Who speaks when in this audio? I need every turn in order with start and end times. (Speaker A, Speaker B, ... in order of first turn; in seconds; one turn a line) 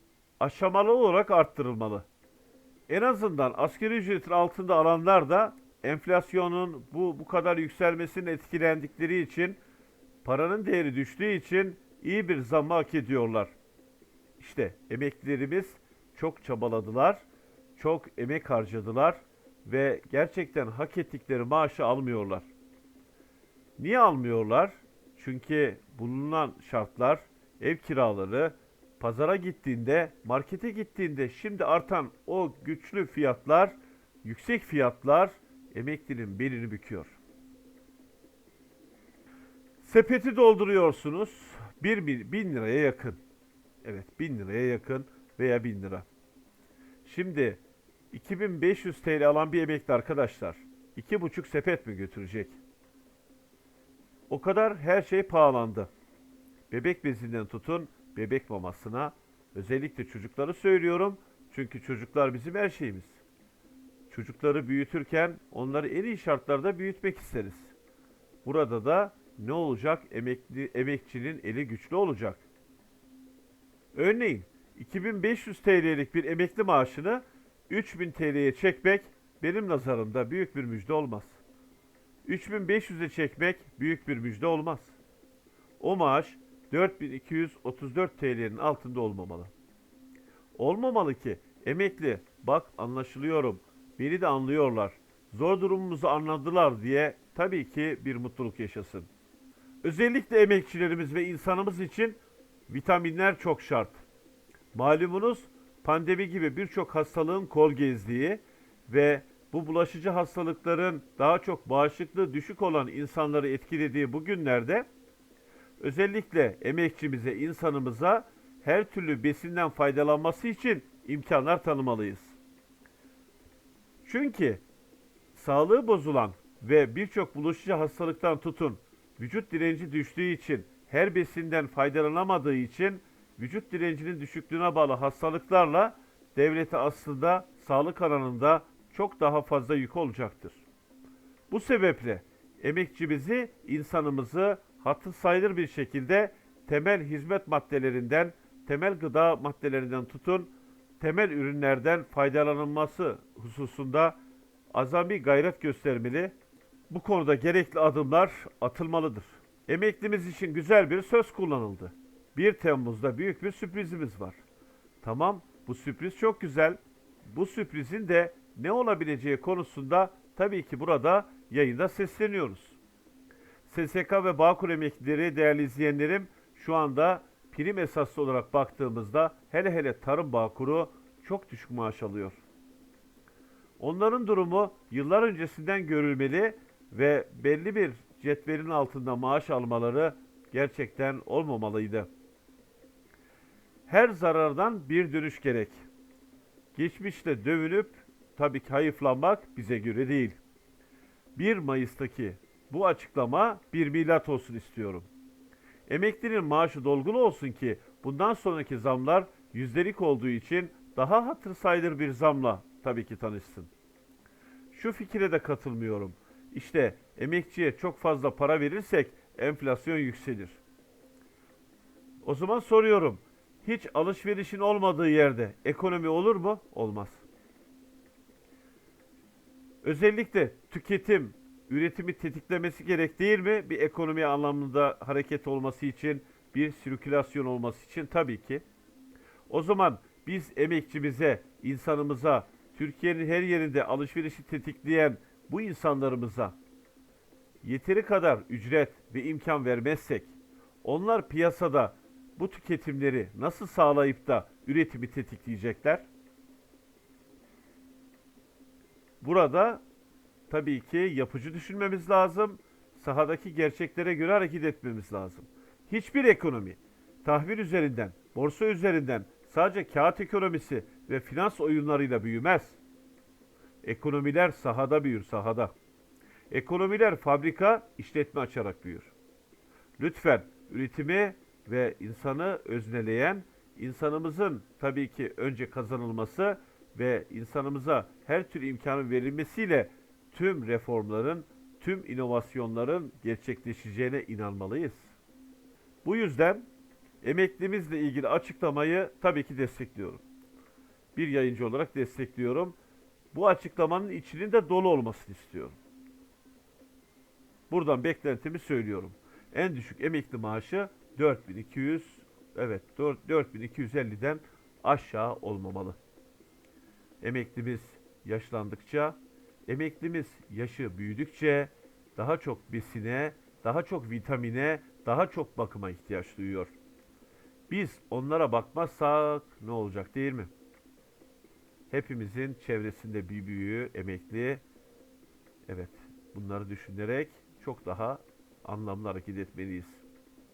Speaker A: 0.4-2.1
Speaker A: 2.9-9.6
Speaker A: 10.2-13.5
Speaker A: 14.4-17.2
Speaker A: 17.8-22.5
Speaker A: 23.8-37.2
Speaker A: 39.8-43.2
Speaker A: 43.8-46.0
Speaker A: 47.0-47.6
Speaker A: 48.1-52.6
Speaker A: 54.3-55.9
Speaker A: 56.7-63.2
Speaker A: 64.1-67.7
Speaker A: 68.4-72.4
Speaker A: 73.9-81.4
Speaker A: 82.2-85.0
Speaker A: 85.8-89.5
Speaker A: 90.5-99.1
Speaker A: 99.8-104.0
Speaker A: 104.7-114.8
Speaker A: 115.8-122.3
Speaker A: 124.0-124.6
Speaker A: 125.3-140.6
Speaker A: 141.5-154.2
Speaker A: 154.7-156.3
Speaker A: 156.9-164.4
Speaker A: 165.0-172.8
Speaker A: 173.7-182.4
Speaker A: 183.8-192.1
Speaker A: 193.9-195.8
Speaker A: 196.7-200.4
Speaker A: 201.3-205.1
Speaker A: 205.9-213.7
Speaker A: 214.7-220.6
Speaker A: 222.2-227.2
Speaker A: 229.8-238.6
Speaker A: 239.5-246.6
Speaker A: 247.6-250.3
Speaker A: 250.8-256.1
Speaker A: 259.2-259.8
Speaker A: 260.5-272.8
Speaker A: 273.8-275.7
Speaker A: 276.5-279.1
Speaker A: 280.0-295.1
Speaker A: 296.0-296.6
Speaker A: 297.2-300.2
Speaker A: 301.1-302.7
Speaker A: 303.3-305.8
Speaker A: 307.7-316.0
Speaker A: 317.2-326.7
Speaker A: 327.7-330.5
Speaker A: 331.9-334.6
Speaker A: 335.6-340.0